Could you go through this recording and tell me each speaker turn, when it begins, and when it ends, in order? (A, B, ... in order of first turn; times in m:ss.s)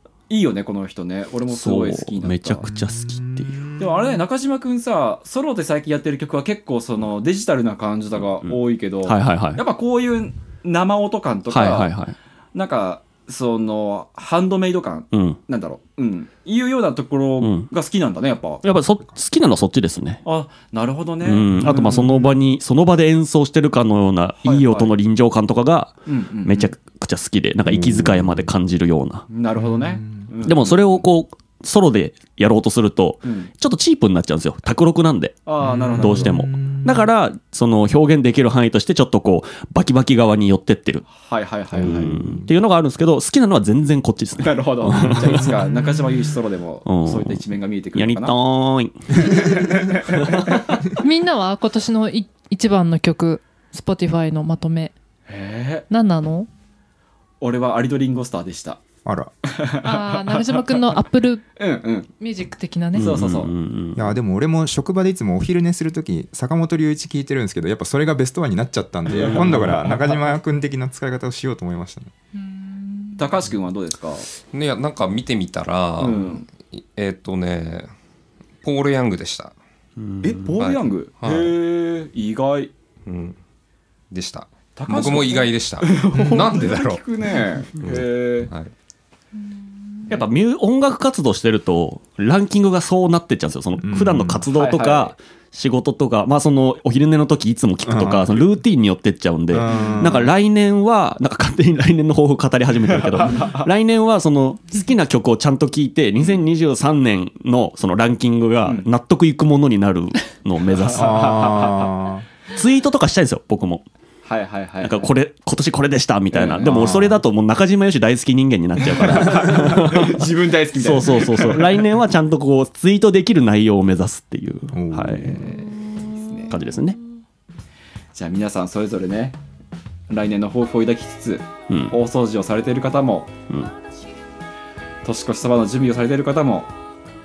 0:00.3-0:02.6 A
0:01.5-0:03.7 B
0:02.6-0:04.2 C
0:03.8-0:11.9 A
0:08.4-0:09.6 B
0:11.5-0:12.1 B
0:12.5-0:18.6 A
0:15.1-0:15.4 B
0:17.4-0:17.7 B
0:18.6-0:20.2 B
0:20.2-0:22.3 A
0:21.2-0:29.2 B
0:24.4-0:24.9 A
0:26.0-0:26.7 A
0:27.7-0:28.3 C
0:29.3-0:31.0 A
0:29.6-0:30.3 C
0:30.4-0:35.4 B
0:33.2-0:33.5 A
0:35.4-0:36.4 A
0:35.6-0:37.1 C
0:36.0-0:41.0 B
0:41.1-0:42.1 A
0:41.8-0:45.5 B
0:41.8-0:42.5 C
0:44.4-0:48.4 A
0:46.9-0:49.6 B
0:49.2-0:50.6 A
0:50.2-0:50.6 B
0:51.0-0:54.9 D
0:55.3-0:55.9 A
0:55.9-0:56.5 D
0:57.4-0:58.8 A
0:59.0-0:59.3 C
0:59.4-1:00.8 A
0:59.8-1:01.4 D
1:01.6-1:02.1 A
1:02.2-1:03.1 D
1:02.9-1:04.2 B
1:03.0-1:03.5 A
1:04.0-1:12.1 C
1:09.1-1:10.1 A
1:09.2-1:09.9 B
1:12.4-1:13.2 D
1:13.2-1:14.3 A
1:14.4-1:17.9 E
1:16.0-1:16.4 A
1:18.6-1:19.5 E
1:20.0-1:20.5 B
1:20.2-1:22.7 A
1:20.6-1:21.5 E
1:23.0-1:23.4 E
1:24.1-1:27.0 E
1:24.8-1:28.5 A
1:26.1-1:26.5 C
1:27.8-1:28.7 E
1:30.1-1:51.4 B
1:33.8-1:34.4 C
1:34.5-1:35.1 A
1:37.8-1:38.4 C
1:39.5-1:40.3 C
1:43.2-1:43.6 A
1:50.8-1:51.9 A
1:50.9-1:52.2 C
1:52.5-1:53.8 B
1:54.2-1:55.1 A
1:54.8-2:05.4 B
1:56.3-1:56.9 A
1:56.6-1:57.2 C
1:58.9-2:01.8 A
2:04.7-2:05.4 C
2:05.3-2:06.5 A
2:06.5-2:07.0 B
2:08.1-2:09.4 A
2:10.1-2:13.3 A
2:11.7-2:12.0 B
2:15.0-2:16.7 A